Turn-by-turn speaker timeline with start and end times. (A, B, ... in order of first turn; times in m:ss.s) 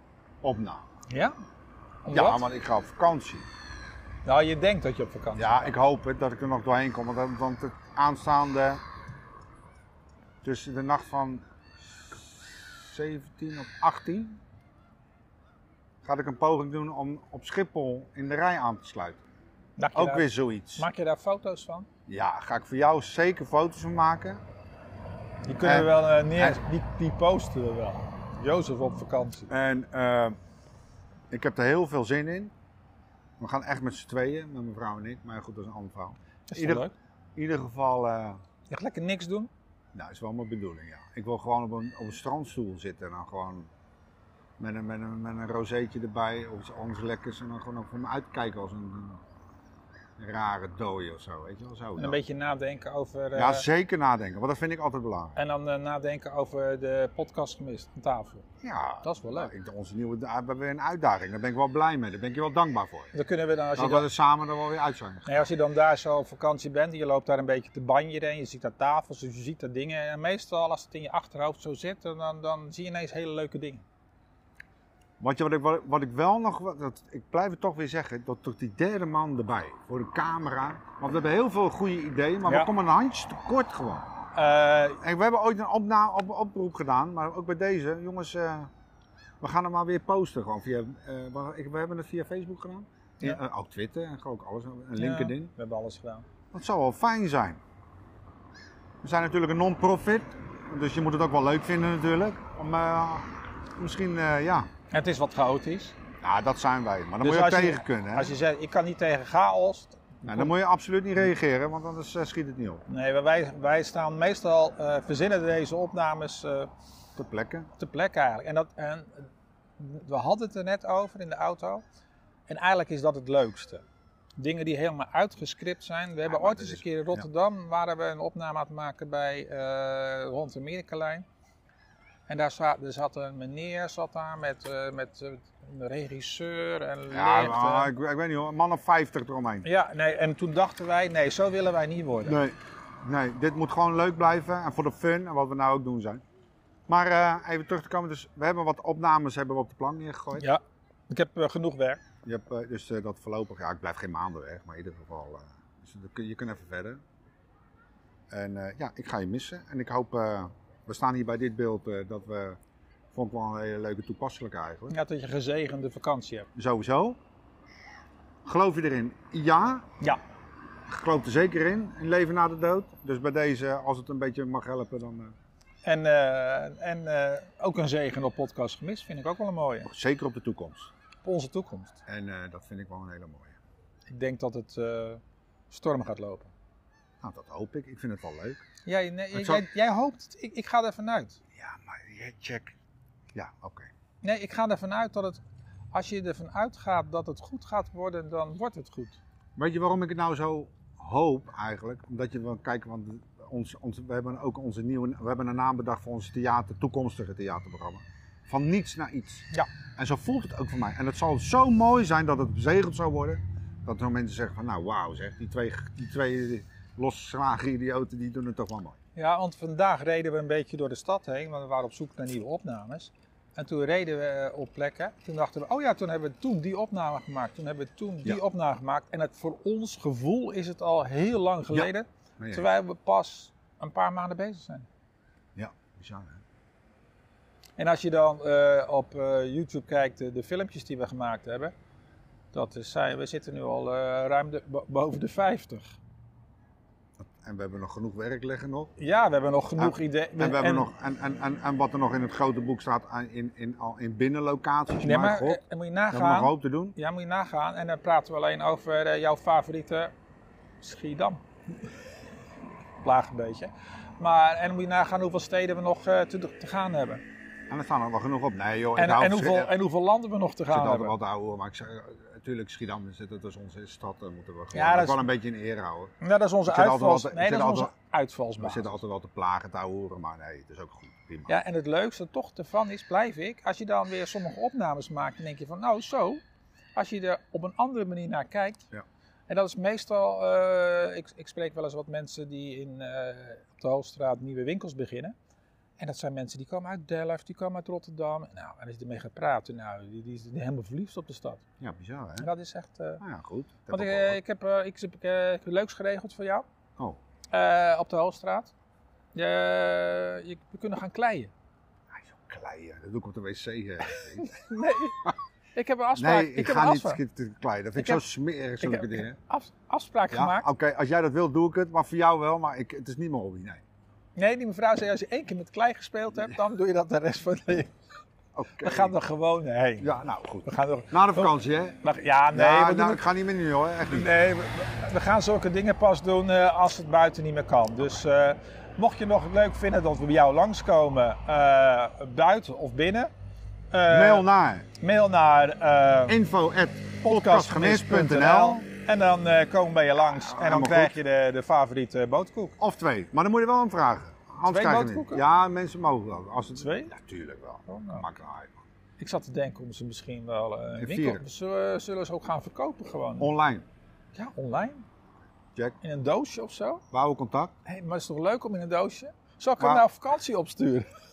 0:00.4-0:00.8 A
0:01.1-0:01.3 B
0:02.0-0:02.4 B
0:02.1-0:03.4 A
0:04.2-0:05.7 B
0:05.4-0:08.8 A
0:10.4-0:11.4 A
0:12.1-0:14.4 A
0:16.0-0:19.2 A
0:19.8-0:21.9 B
0:19.9-0:20.9 A
0:22.1-0:24.4 A
0:25.4-0:29.5 B
0:25.6-0:26.6 A
0:29.5-0:30.4 A
0:31.3-0:32.5 A
0:33.4-0:38.4 A
0:36.5-0:36.9 B
0:38.7-0:39.5 B
0:39.9-0:43.7 A
0:44.6-0:49.2 A
0:50.2-0:52.2 A
0:52.0-0:53.6 B
0:53.3-0:55.4 A
0:55.4-0:58.4 B
0:58.6-1:03.1 A
0:59.0-0:59.5 B
1:03.1-1:04.1 B
1:03.8-1:05.4 A
1:05.2-1:13.8 B
1:15.2-1:24.1 A
1:22.4-1:22.7 B
1:24.3-1:25.0 B
1:25.0-1:28.7 A
1:29.4-1:35.5 A
1:35.0-1:36.2 B
1:36.5-1:37.6 A
1:39.0-1:44.7 A
1:44.9-1:46.0 B
1:46.2-1:48.3 A
1:47.2-1:50.5 B
1:50.2-1:52.8 A
1:52.9-1:56.7 B
1:57.2-1:57.7 A
1:57.8-2:01.8 B
2:02.5-2:03.8 B
2:04.4-2:11.2 B
2:06.2-2:07.2 A
2:12.3-2:17.9 B
2:17.1-2:19.7 A
2:19.6-2:22.4 B
2:22.2-2:26.2 A
2:26.9-2:30.5 A
2:30.4-2:32.0 B
2:32.2-2:37.0 A
2:38.3-2:42.6 A
2:43.1-2:45.0 A
2:44.9-2:46.5 B
2:46.6-2:47.2 A
2:48.4-2:49.9 A
2:50.9-2:55.3 A
2:55.8-2:59.9 B
2:59.8-3:00.9 A
3:01.2-3:02.0 B
3:02.0-3:03.6 A
3:04.1-3:06.5 B
3:07.2-3:08.6 A
3:08.8-3:11.4 B
3:09.3-3:09.6 A
3:11.5-3:12.8 A
3:13.3-3:13.9 A
3:14.2-3:15.4 B
3:15.9-3:19.2 B
3:19.6-3:39.0 A
3:39.2-3:54.9 B
3:51.7-3:52.7 A
3:55.6-3:56.4 A
3:57.8-4:01.7 B
4:02.5-4:06.0 B
4:07.2-4:08.9 A
4:09.0-4:10.9 B
4:09.8-4:15.6 A
4:15.0-4:20.1 B
4:16.1-4:17.0 A
4:20.8-4:21.4 B
4:23.0-4:27.2 B
4:27.7-4:29.7 A
4:29.0-4:31.2 B
4:30.7-4:37.9 A
4:34.7-4:35.2 B
4:36.2-4:39.0 B
4:38.6-4:41.6 A
4:41.5-4:46.4 B
4:46.9-4:48.8 B
4:49.5-4:55.3 B
4:56.0-5:01.6 B
5:01.8-5:02.5 A
5:02.4-5:03.2 B
5:03.2-5:04.4 A
5:03.9-5:06.6 B
5:07.5-5:08.7 B
5:09.3-5:11.5 B
5:12.1-5:14.6 A
5:14.1-5:17.2 B
5:16.2-5:19.4 A
5:18.0-5:18.2 B
5:18.8-5:20.7 B
5:20.3-5:23.8 A
5:24.4-5:27.9 B
5:28.5-5:29.1 A
5:28.8-5:33.3 B
5:30.0-5:32.0 A
5:32.5-5:34.3 A
5:34.1-5:43.3 B
5:43.9-5:44.4 B
5:44.1-5:44.8 A
5:45.0-5:46.4 B
5:46.3-5:48.8 A
5:47.2-5:52.8 B
5:50.2-5:51.1 A
5:52.8-5:58.7 A
5:54.6-5:55.4 B
5:56.8-5:57.1 B
5:57.9-5:58.2 B
5:59.2-6:03.5 B
6:01.0-6:01.4 A
6:03.4-6:03.8 A
6:04.3-6:05.0 B
6:06.0-6:07.0 B
6:07.1-6:07.7 A
6:07.8-6:11.1 B
6:09.8-6:10.0 A